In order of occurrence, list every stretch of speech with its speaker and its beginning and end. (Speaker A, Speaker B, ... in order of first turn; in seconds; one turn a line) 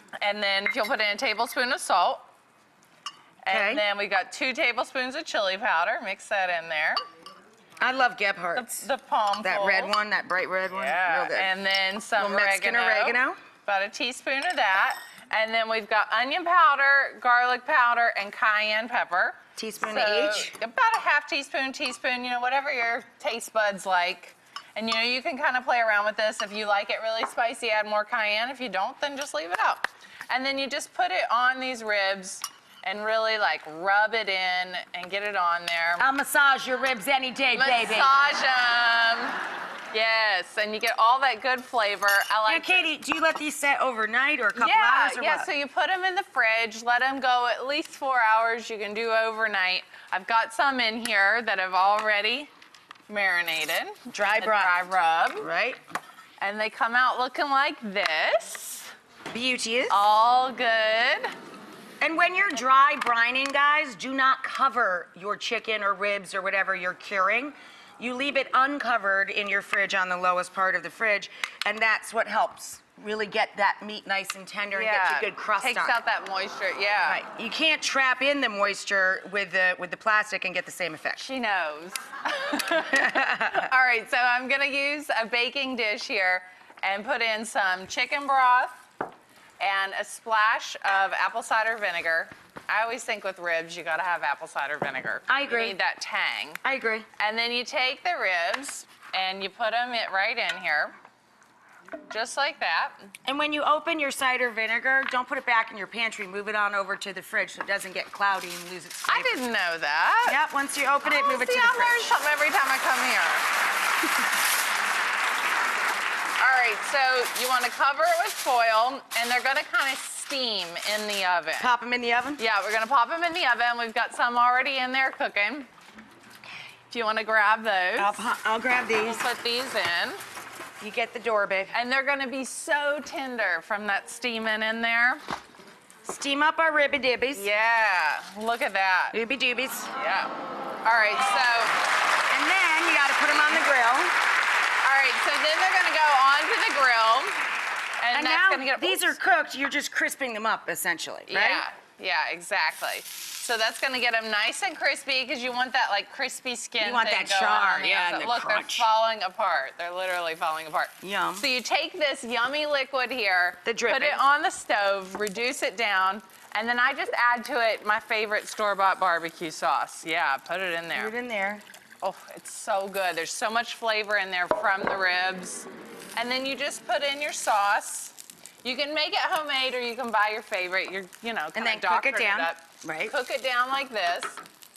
Speaker A: 0.2-2.2
Speaker A: 3.4-7.0
Speaker B: 3.5-3.8
Speaker B: 7.8-8.7
Speaker A: 8.6-9.9
Speaker B: 9.4-11.5
Speaker A: 10.7-36.1
Speaker B: 12.2-13.4
Speaker B: 19.6-20.6
Speaker B: 36.0-38.2
Speaker A: 37.5-39.4
Speaker A: 39.9-42.9
Speaker B: 42.5-45.5
Speaker A: 44.6-52.5
Speaker A: 53.1-55.5
Speaker B: 54.1-54.8
Speaker B: 55.4-55.8
Speaker A: 56.4-58.9
Speaker B: 59.3-60.0
Speaker A: 59.9-61.3
Speaker B: 62.0-76.0
Speaker A: 74.7-77.2
Speaker B: 77.1-81.2
Speaker A: 81.2-88.8
Speaker B: 82.9-83.7
Speaker A: 89.6-96.6
Speaker B: 95.3-95.8
Speaker B: 96.6-97.1
Speaker A: 97.2-100.9
Speaker A: 102.1-103.1
Speaker B: 103.2-109.3
Speaker A: 109.1-110.4
Speaker B: 110.3-112.1
Speaker A: 111.0-113.5
Speaker A: 116.4-121.7
Speaker B: 121.6-122.4
Speaker A: 122.4-125.7
Speaker A: 126.9-128.3
Speaker B: 128.0-129.2
Speaker A: 129.0-130.2
Speaker B: 130.8-131.8
Speaker A: 131.7-135.2
Speaker B: 136.1-137.5
Speaker A: 137.4-139.2
Speaker B: 139.1-139.9
Speaker A: 139.9-140.3
Speaker A: 140.8-141.8
Speaker B: 142.3-144.2
Speaker A: 144.8-147.4
Speaker A: 148.0-149.2
Speaker B: 148.1-151.7
Speaker A: 151.3-171.1
Speaker B: 156.8-158.9
Speaker B: 161.0-161.5
Speaker B: 163.7-164.2
Speaker B: 170.9-171.6
Speaker A: 172.0-184.4
Speaker B: 181.6-183.2